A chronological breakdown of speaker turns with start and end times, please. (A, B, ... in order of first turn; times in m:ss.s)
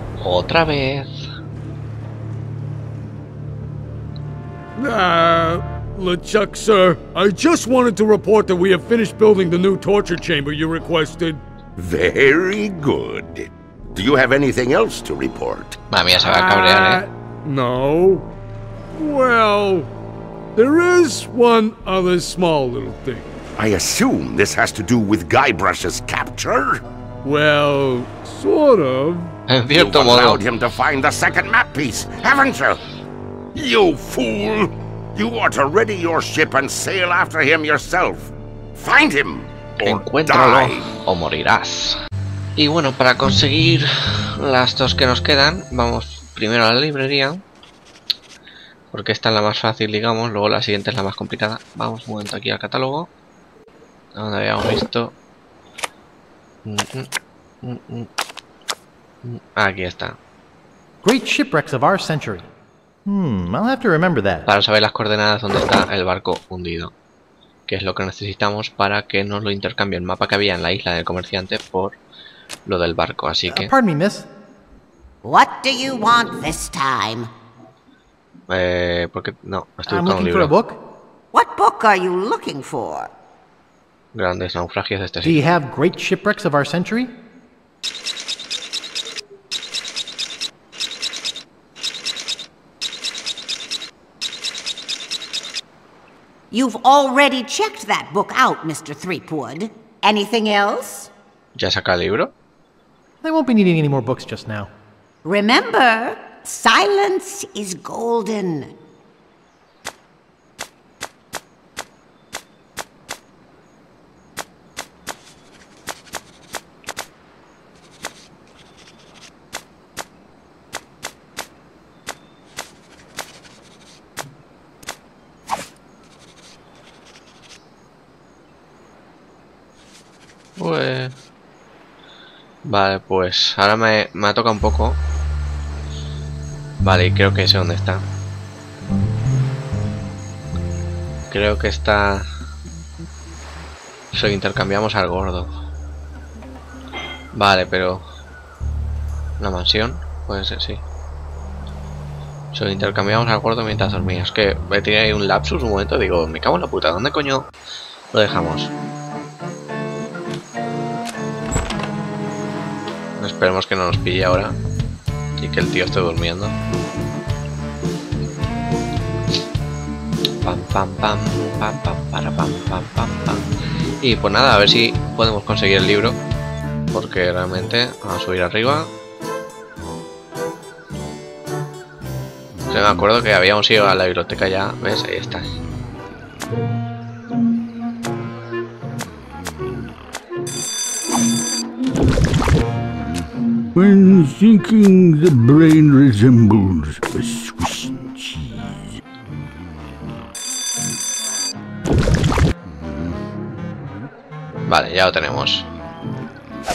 0:00.2-0:01.1 A
0:04.8-0:11.4 B
0:11.8-0:15.8 C
0:15.9-0:17.0 A
0:16.1-0:18.2 B
0:19.0-0:19.9 B
0:20.6-0:23.3 B
0:23.6-0:26.8 C
0:27.2-0:29.3 B
0:29.5-0:30.4 A
0:29.7-0:32.8 C
0:33.5-0:40.9 C
0:39.8-0:42.0 A
0:42.6-0:47.4 A
0:48.9-0:53.1 A
0:54.2-0:55.2 A
0:56.6-0:57.1 A
0:57.6-0:58.1 A
0:59.2-1:00.2 A
1:01.0-1:02.5 D
1:03.0-1:04.5 D
1:04.5-1:06.9 A
1:07.7-1:12.0 A
1:12.6-1:13.7 A
1:13.5-1:14.3 D
1:15.2-1:17.3 E
1:18.5-1:20.5 A
1:19.9-1:20.8 D
1:21.3-1:23.1 E
1:24.1-1:25.5 A
1:25.2-1:27.1 D
1:36.5-1:41.1 E
1:41.5-1:42.3 A
1:43.2-1:44.7 D
1:45.2-1:48.7 E
2:10.6-2:11.1 A
2:12.7-2:15.0 A
2:16.8-2:18.0 A
2:21.3-2:22.2 A
2:24.1-2:25.5 A
2:27.3-2:28.0 A
2:29.4-2:30.8 A
2:32.5-2:37.5 A
2:38.1-2:38.7 A
2:43.2-2:44.6 A
2:45.4-2:46.6 A
2:50.4-2:53.5 A
2:54.0-2:56.2 A
2:56.9-2:58.9 A
3:02.7-3:05.5 A
3:13.7-3:18.7 F
3:24.7-3:25.7 A